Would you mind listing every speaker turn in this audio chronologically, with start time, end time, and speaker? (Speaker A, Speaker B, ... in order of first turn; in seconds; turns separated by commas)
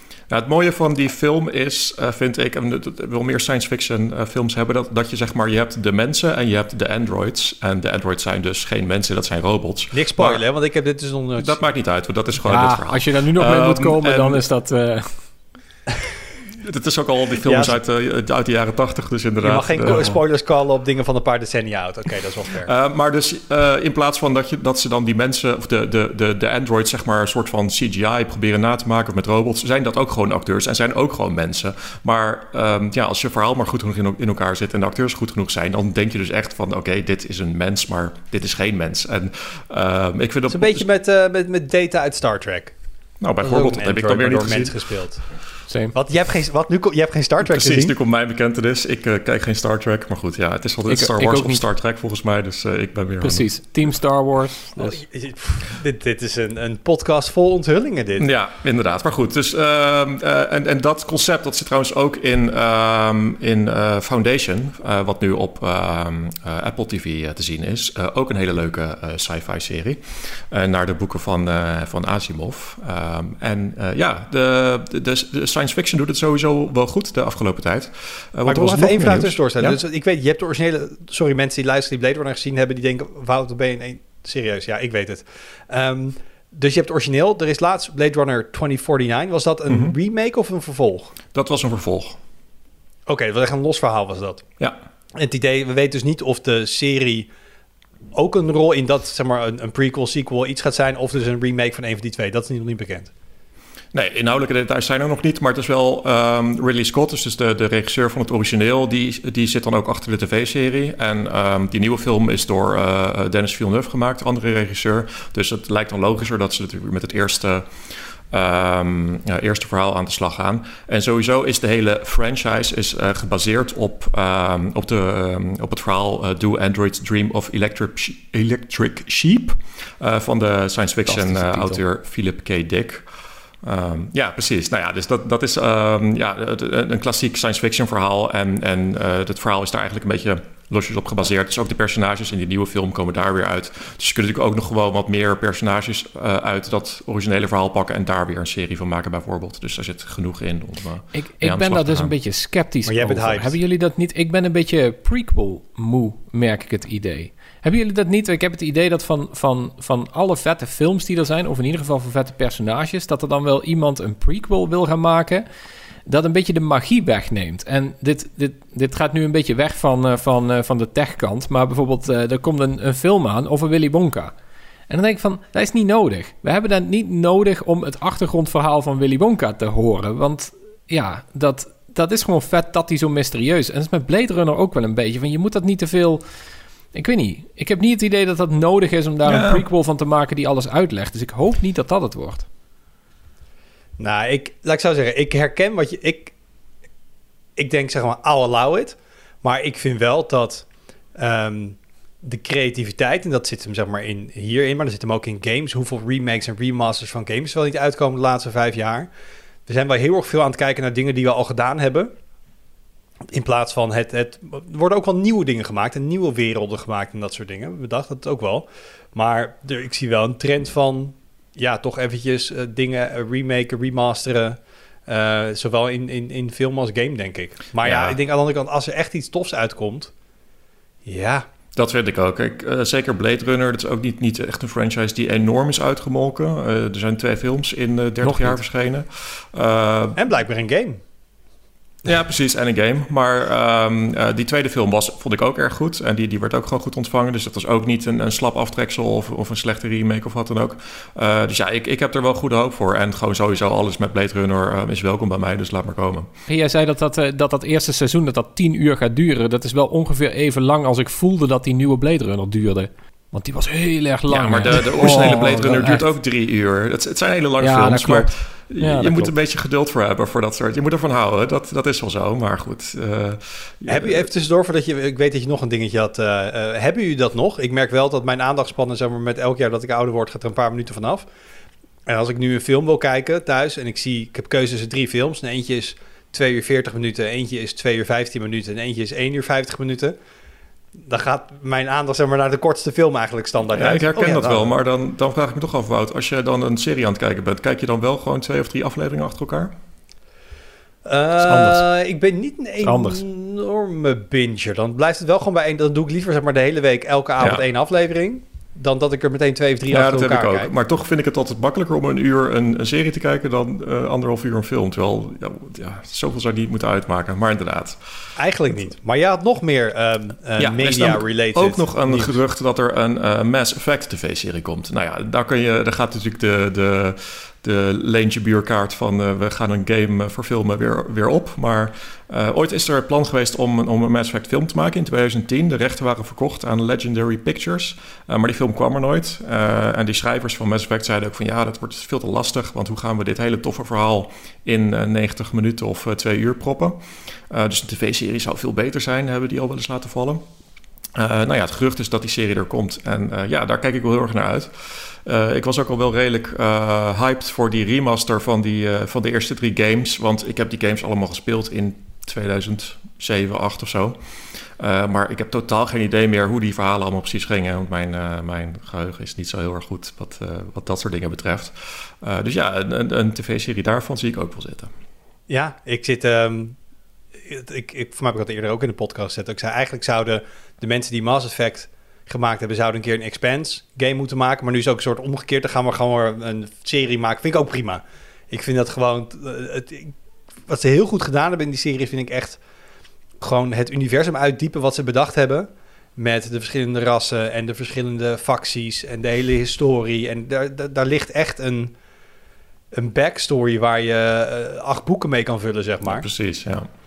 Speaker A: 0.3-10.4, Speaker B: 9.9-11.7, Speaker A: 11.4-14.4, Speaker C: 12.4-15.2, Speaker A: 16.6-20.2, Speaker B: 17.4-17.8, Speaker B: 19.4-22.7, Speaker A: 22.6-40.9, Speaker B: 40.5-42.8, Speaker A: 43.2-44.8, Speaker B: 43.4-45.3, Speaker C: 45.7-45.9, Speaker B: 45.9-47.9, Speaker A: 47.4-53.5, Speaker C: 50.9-51.6, Speaker C: 53.2-55.0, Speaker B: 54.8-58.3, Speaker A: 58.2-79.8, Speaker B: 78.5-91.2, Speaker A: 89.7-90.0, Speaker A: 91.3-92.2, Speaker B: 93.1-94.4, Speaker B: 95.2-97.3, Speaker B: 98.1-103.1, Speaker A: 103.9-133.1, Speaker C: 131.1-131.8, Speaker A: 133.6-152.1, Speaker C: 151.1-165.4, Speaker B: 152.8-153.6, Speaker C: 166.1-174.3, Speaker C: 174.9-186.2, Speaker C: 186.9-192.5, Speaker A: 189.3-189.7, Speaker B: 194.0-196.3, Speaker B: 197.6-200.7, Speaker B: 201.2-209.1, Speaker B: 209.7-212.1, Speaker B: 213.3-230.1, Speaker A: 227.8-228.2, Speaker B: 231.1-231.5, Speaker A: 231.7-240.2, Speaker C: 238.2-238.6, Speaker B: 240.2-241.0, Speaker A: 242.0-256.3, Speaker C: 256.5-266.0, Speaker A: 264.3-274.3, Speaker C: 267.6-269.3, Speaker B: 273.9-281.3, Speaker B: 282.1-290.1, Speaker B: 291.1-294.7, Speaker A: 293.7-299.7, Speaker B: 301.1-310.7, Speaker C: 301.4-301.9, Speaker C: 302.8-303.2, Speaker A: 307.4-307.6, Speaker A: 309.9-318.0, Speaker B: 318.4-322.3, Speaker A: 320.6-350.4, Speaker A: 351.1-374.9, Speaker B: 375.5-376.8, Speaker B: 377.5-390.1, Speaker B: 390.7-392.6, Speaker B: 393.4-401.9, Speaker B: 402.9-406.2, Speaker A: 406.0-406.9